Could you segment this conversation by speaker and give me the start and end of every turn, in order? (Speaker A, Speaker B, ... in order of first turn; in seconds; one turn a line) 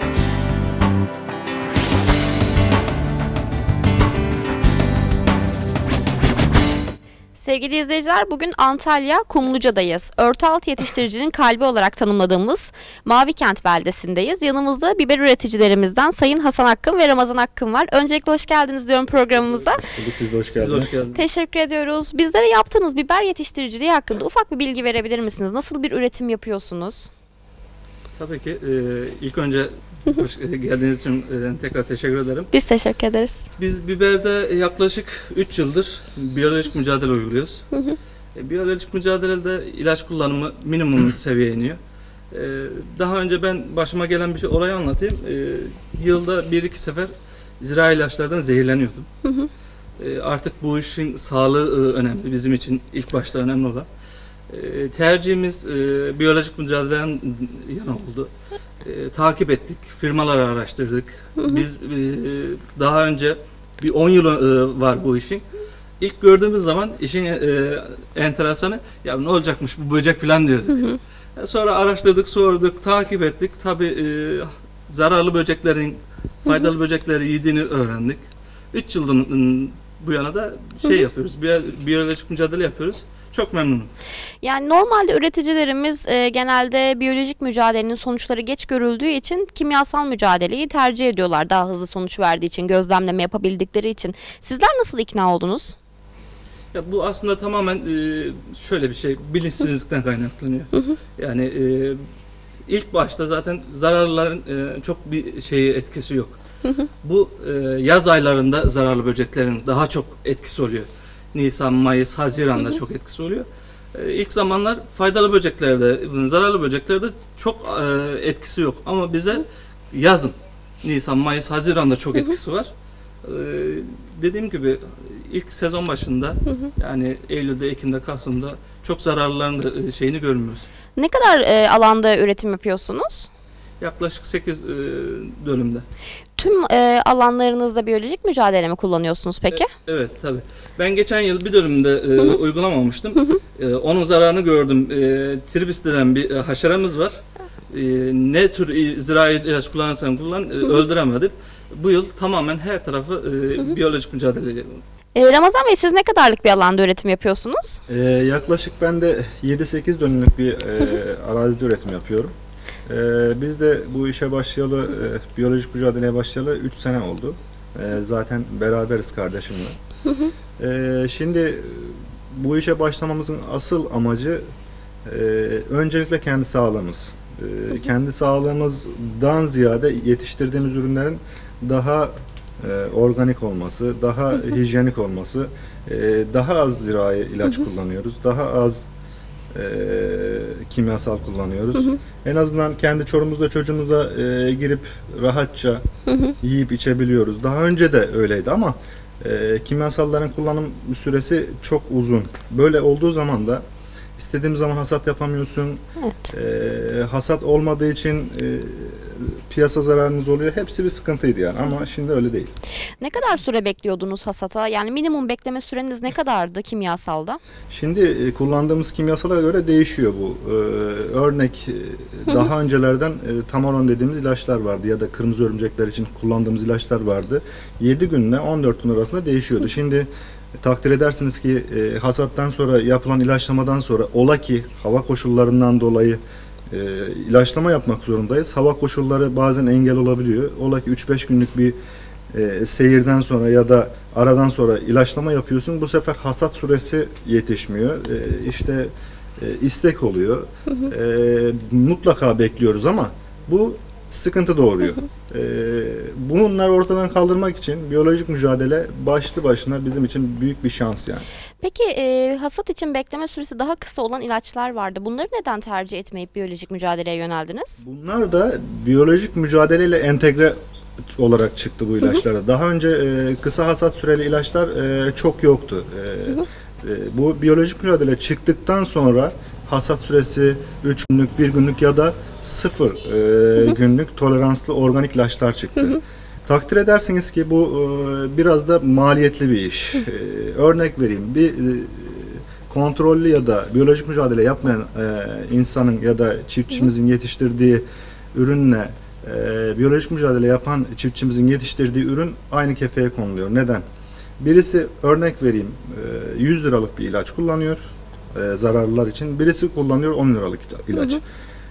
Speaker A: 7.3-19.8
Speaker B: 19.7-21.0
Speaker C: 20.4-21.2
Speaker A: 21.1-27.1
Speaker C: 28.2-32.5
Speaker A: 32.5-33.5
Speaker C: 33.6-37.7
Speaker C: 38.4-41.8
Speaker C: 42.3-49.1
Speaker C: 50.0-53.9
Speaker C: 54.5-58.3
Speaker C: 58.8-65.4
Speaker C: 66.0-83.9
Speaker A: 84.4-95.8
Speaker C: 96.7-102.0
Speaker C: 102.7-106.3
Speaker C: 107.0-122.7
Speaker C: 123.2-130.7
Speaker A: 131.0-133.3
Speaker C: 133.8-135.8
Speaker A: 136.4-139.7
Speaker C: 139.5-154.8
Speaker A: 155.2-157.8
Speaker B: 157.9-162.3
Speaker B: 162.9-169.8
Speaker B: 170.6-174.4
Speaker B: 175.1-188.8
Speaker B: 189.5-195.8
Speaker B: 196.4-203.6
Speaker B: 204.2-212.6
Speaker A: 206.0-206.3
Speaker A: 213.0-217.4
Speaker B: 217.7-241.8
Speaker B: 242.3-261.3
Speaker A: 261.6-267.8
Speaker B: 267.8-270.6
Speaker B: 271.1-303.9
Speaker B: 304.4-311.2